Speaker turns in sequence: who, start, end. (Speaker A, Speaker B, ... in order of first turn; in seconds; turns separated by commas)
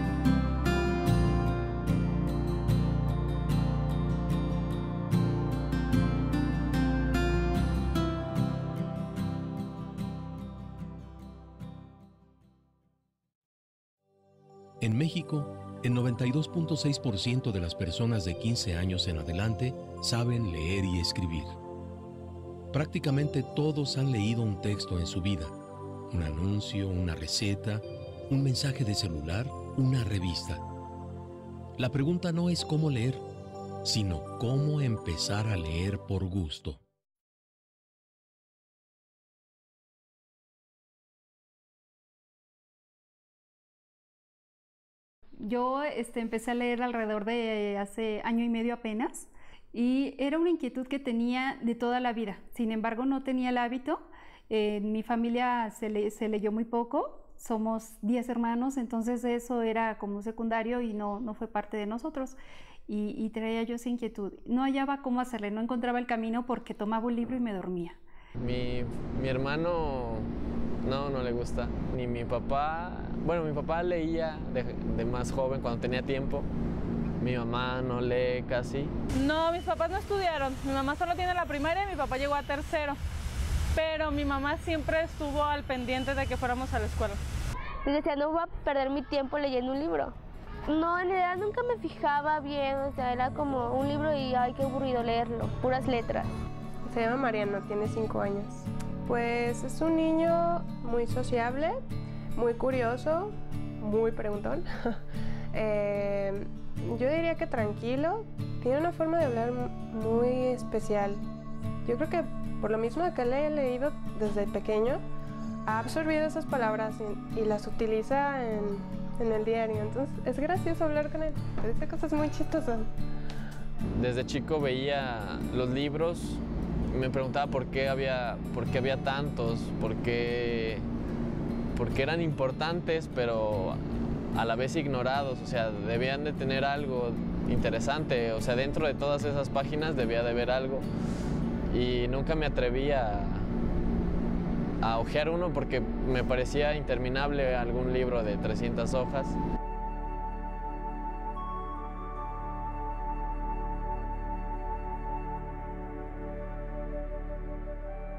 Speaker A: 14.8-21.6, Speaker A: 22.7-25.5, Speaker A: 26.1-30.6, Speaker A: 31.8-33.2, Speaker A: 33.8-36.8, Speaker B: 45.4-62.4, Speaker B: 62.9-68.0, Speaker C: 68.4-70.3, Speaker C: 70.8-76.5, Speaker C: 77.2-78.9, Speaker D: 79.1-83.0, Speaker D: 83.7-87.2, Speaker E: 87.8-90.2, Speaker E: 90.7-96.3, Speaker F: 96.9-101.8, Speaker F: 102.4-105.0, Speaker F: 105.5-111.2, Speaker F: 111.9-115.0, Speaker F: 115.7-122.9, Speaker C: 123.9-130.8, Speaker C: 131.7-133.8, Speaker C: 134.3-140.8, Speaker C: 141.7-143.5, Speaker C: 144.8-149.4